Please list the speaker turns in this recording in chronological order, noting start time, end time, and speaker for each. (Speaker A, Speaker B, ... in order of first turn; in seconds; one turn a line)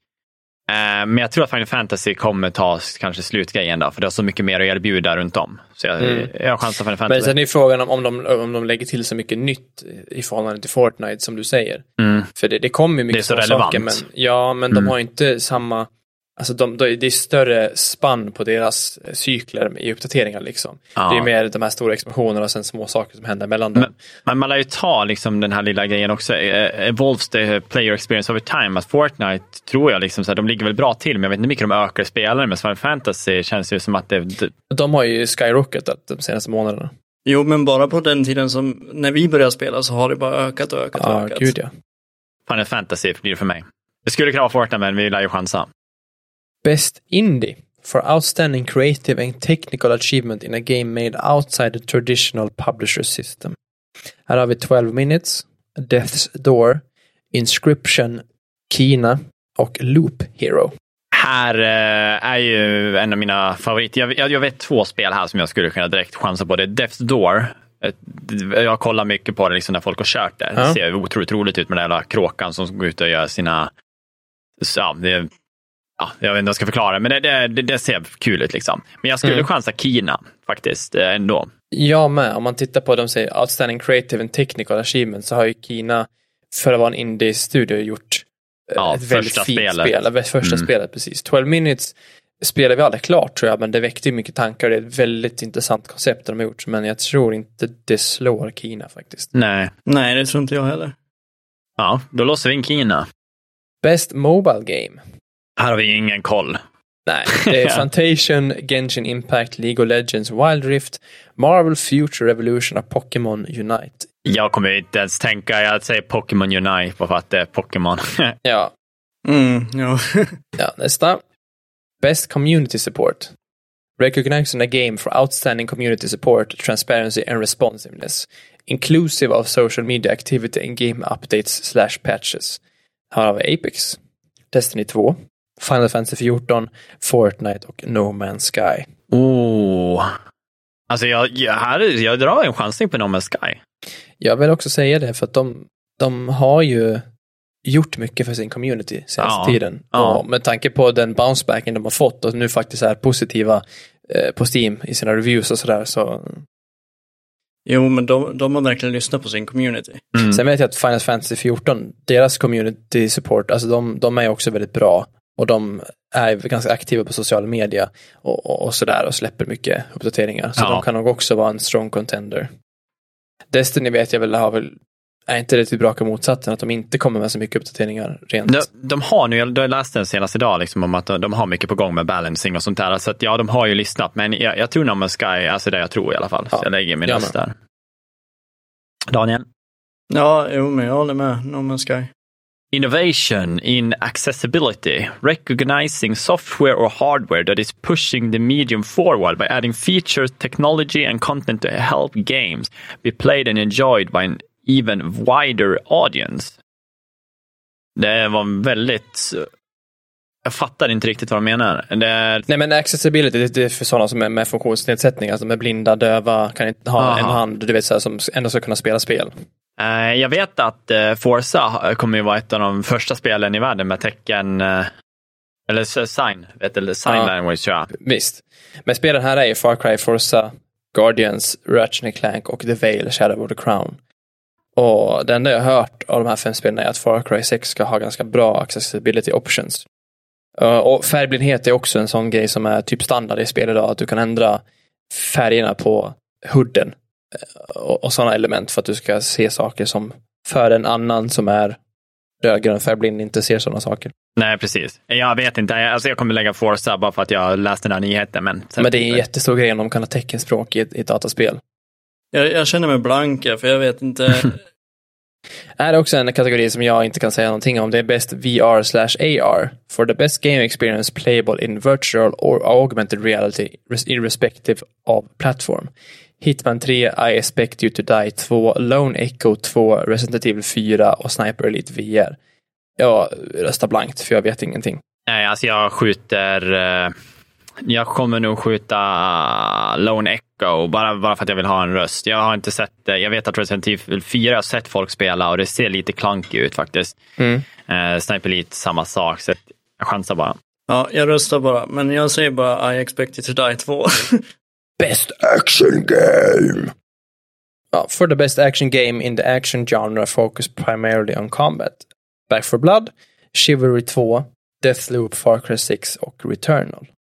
Speaker A: 0.7-7.3
Speaker B: 6.0-6.3
Speaker B: 7.1-23.9
Speaker A: 12.0-12.3
Speaker A: 13.1-14.0
Speaker A: 20.9-21.3
Speaker A: 23.8-34.5
Speaker B: 34.7-36.9
Speaker C: 37.2-41.5
Speaker B: 41.0-41.7
Speaker A: 42.5-45.7
Speaker B: 46.6-53.6
Speaker B: 54.3-60.7
Speaker A: 61.1-73.7
Speaker A: 74.6-75.3
Speaker A: 76.0-81.5
Speaker B: 81.7-99.3
Speaker A: 88.8-90.7
Speaker A: 99.3-99.7
Speaker C: 99.9-100.9
Speaker A: 101.8-103.0
Speaker B: 103.8-105.0
Speaker A: 105.6-106.6
Speaker B: 107.1-114.1
Speaker A: 107.3-107.8
Speaker A: 114.2-118.4
Speaker B: 118.4-118.7
Speaker C: 119.2-120.4
Speaker B: 120.6-121.2
Speaker B: 122.0-123.3
Speaker B: 124.0-132.6
Speaker B: 133.1-134.0
Speaker B: 134.5-138.9
Speaker A: 139.1-140.1
Speaker A: 140.9-143.6
Speaker B: 144.2-147.1
Speaker B: 147.6-156.4
Speaker A: 149.2-150.2
Speaker C: 157.7-160.1
Speaker A: 160.1-160.4
Speaker B: 160.2-172.5
Speaker A: 170.6-170.8
Speaker B: 173.5-174.8
Speaker B: 175.3-178.7
Speaker A: 178.5-187.6
Speaker B: 186.5-187.3
Speaker A: 189.1-189.4
Speaker C: 190.1-192.1
Speaker A: 192.7-206.5
Speaker A: 208.0-209.5
Speaker A: 210.4-212.4
Speaker B: 212.5-219.3
Speaker A: 217.0-217.4
Speaker A: 219.8-224.9
Speaker A: 225.7-227.9
Speaker B: 227.1-227.3
Speaker B: 227.9-234.0
Speaker B: 234.7-239.9
Speaker B: 240.6-246.9
Speaker B: 247.6-251.8
Speaker B: 252.4-254.1
Speaker A: 254.4-259.2
Speaker B: 258.8-261.6
Speaker C: 262.3-264.6
Speaker B: 265.8-282.4
Speaker B: 283.0-285.0
Speaker A: 285.3-287.1
Speaker A: 287.8-297.2
Speaker B: 297.4-297.6
Speaker A: 297.8-300.6
Speaker C: 300.9-304.4
Speaker B: 305.0-306.9
Speaker B: 307.9-317.1